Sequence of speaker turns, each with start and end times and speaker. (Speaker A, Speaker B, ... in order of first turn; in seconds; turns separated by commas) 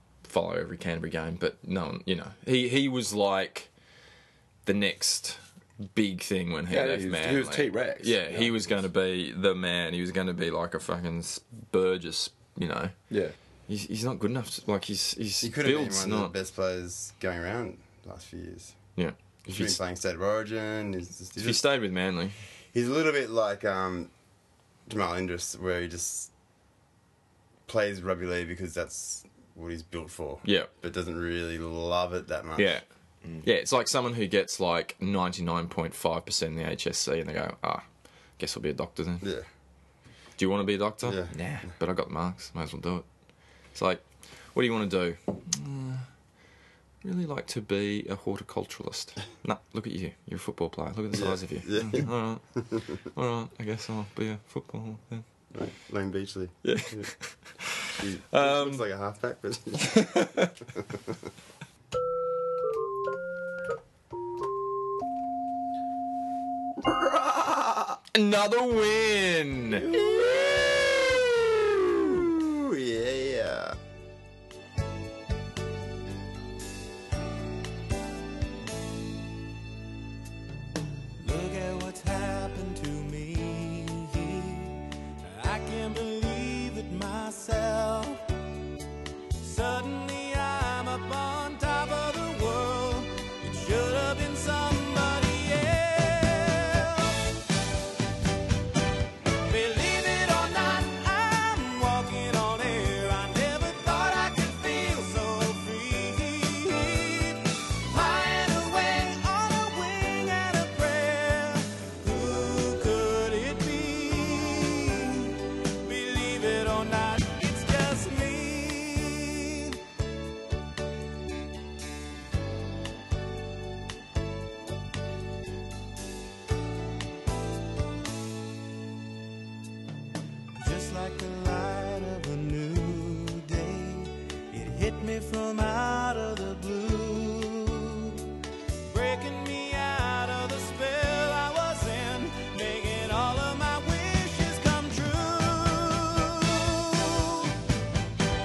Speaker A: 0.2-3.7, Speaker A: 4.7-5.4, Speaker A: 5.9-12.9, Speaker B: 6.7-8.6, Speaker B: 13.1-13.3, Speaker A: 13.7-16.3, Speaker C: 15.4-18.8, Speaker A: 19.0-19.8, Speaker C: 19.5-21.6, Speaker A: 21.4-22.4, Speaker C: 22.7-24.1, Speaker C: 24.9-26.3, Speaker C: 27.7-32.8, Speaker A: 30.4-30.7, Speaker A: 32.6-32.8, Speaker A: 33.4-37.9, Speaker A: 38.4-39.2, Speaker A: 40.4-43.0, Speaker C: 41.0-41.3, Speaker A: 43.8-46.0, Speaker A: 47.0-52.4, Speaker C: 51.1-52.1, Speaker A: 53.0-55.2, Speaker C: 55.5-57.1, Speaker A: 56.6-57.1, Speaker C: 57.9-60.1, Speaker A: 58.3-58.8, Speaker A: 59.8-60.5, Speaker B: 66.8-68.0, Speaker A: 68.1-69.9, Speaker C: 69.9-71.3, Speaker C: 72.0-73.8, Speaker D: 81.2-88.3, Speaker D: 89.4-97.3, Speaker D: 99.5-119.8, Speaker D: 130.6-138.3, Speaker D: 138.9-147.6